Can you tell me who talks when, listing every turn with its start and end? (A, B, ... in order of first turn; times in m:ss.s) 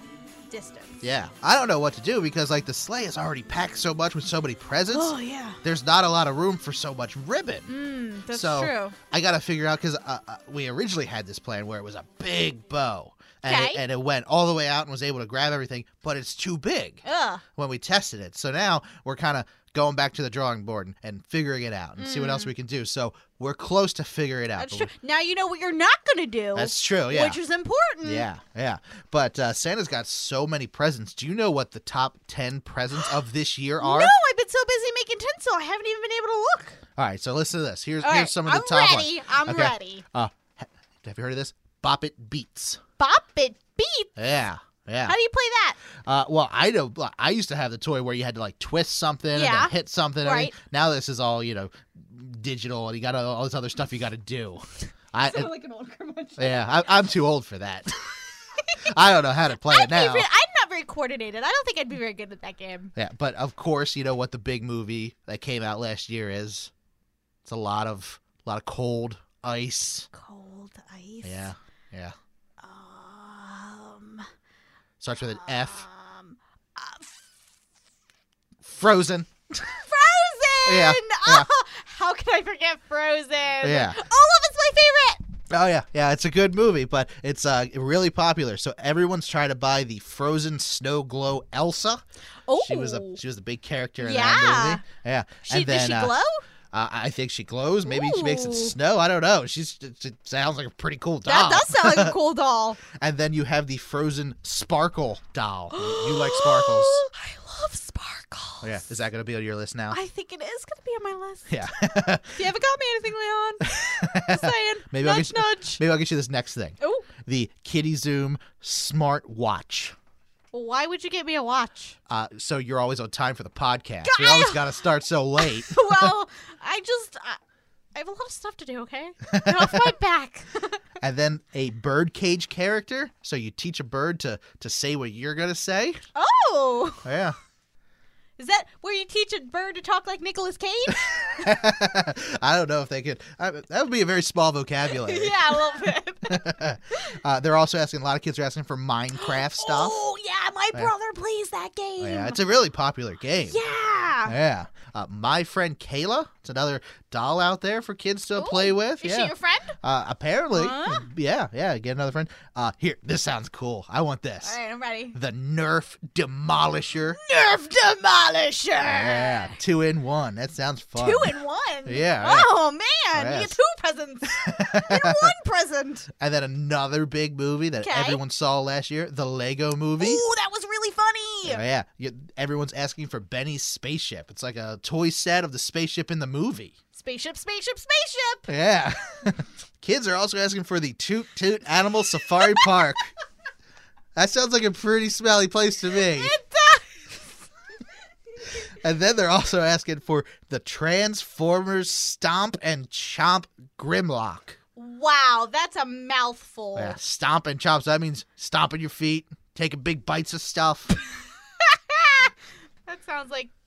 0:00.5-0:01.0 A
0:01.0-0:07.7 B
0:04.9-0:05.6 A
0:07.7-0:08.9 A
0:08.3-0:17.0 B
0:13.4-0:13.8 A
0:17.0-0:17.4 A
0:17.6-0:24.9 B
0:22.0-0:22.5 A
0:24.6-0:28.3 A
0:26.5-0:27.4 B
0:28.0-0:34.1 B
0:33.8-0:36.8 A
0:37.0-0:42.8 B
0:38.0-0:40.0 A
0:43.0-0:44.1 A
0:44.2-0:45.2 B
0:45.0-0:45.8 A
0:46.0-0:55.5 B
0:49.3-0:50.5 A
0:55.2-0:57.0 A
0:56.4-0:58.1 B
0:58.6-0:58.9 A
0:58.8-1:00.3 B
0:59.5-1:02.9 A
1:02.9-1:06.7 B
1:07.4-1:10.1 B
1:10.1-1:11.5 A
1:11.2-1:12.1 B
1:12.6-1:14.3 A
1:15.0-1:15.8 B
1:15.2-1:17.3 A
1:18.6-1:19.3 B
1:19.6-1:25.2 A
1:20.6-1:21.5 B
1:23.6-1:24.0 B
1:25.5-1:32.0 B
1:32.4-1:33.2 A
1:32.6-1:36.1 B
1:34.0-1:34.8 A
1:35.4-1:36.4 A
1:36.7-1:42.2 B
1:37.8-1:38.7 A
1:41.2-1:42.8 A
1:42.9-1:47.0 B
1:45.7-1:48.8 A
1:48.6-1:50.0 B
1:49.9-1:55.8 A
1:51.5-1:52.4 B
1:53.6-1:59.9 B
1:56.8-1:57.1 A
2:00.5-2:02.0 A
2:02.1-2:06.1 B
2:04.0-2:04.7 A
2:05.4-2:07.4 A
2:07.9-2:10.8 A
2:09.3-2:09.9 B
2:11.0-2:16.0 B
2:16.1-2:17.0 A
2:17.0-2:17.4 B
2:18.4-2:21.5 A
2:21.4-2:30.0 B
2:24.9-2:27.0 A
2:29.2-2:32.4 A
2:32.0-2:33.6 B
2:33.4-2:34.3 A
2:34.2-2:44.6 B
2:38.3-2:39.8 A
2:40.5-2:41.1 A
2:44.4-2:45.2 A
2:45.1-2:47.2 B
2:47.2-2:49.6 A
2:48.8-2:52.5 B
2:51.0-2:56.1 A
2:53.1-2:53.6 B
2:54.4-2:55.3 B
2:56.2-3:00.2 B
2:57.8-2:58.2 A
3:00.0-3:01.6 A
3:01.4-3:06.7 B
3:06.9-3:08.5 A
3:08.5-3:13.1 B
3:14.1-3:16.3 B
3:15.9-3:17.2 A
3:18.6-3:24.6 B
3:24.8-3:27.0 A
3:26.7-3:31.0 B
3:31.6-3:32.3 A
3:32.8-3:33.5 A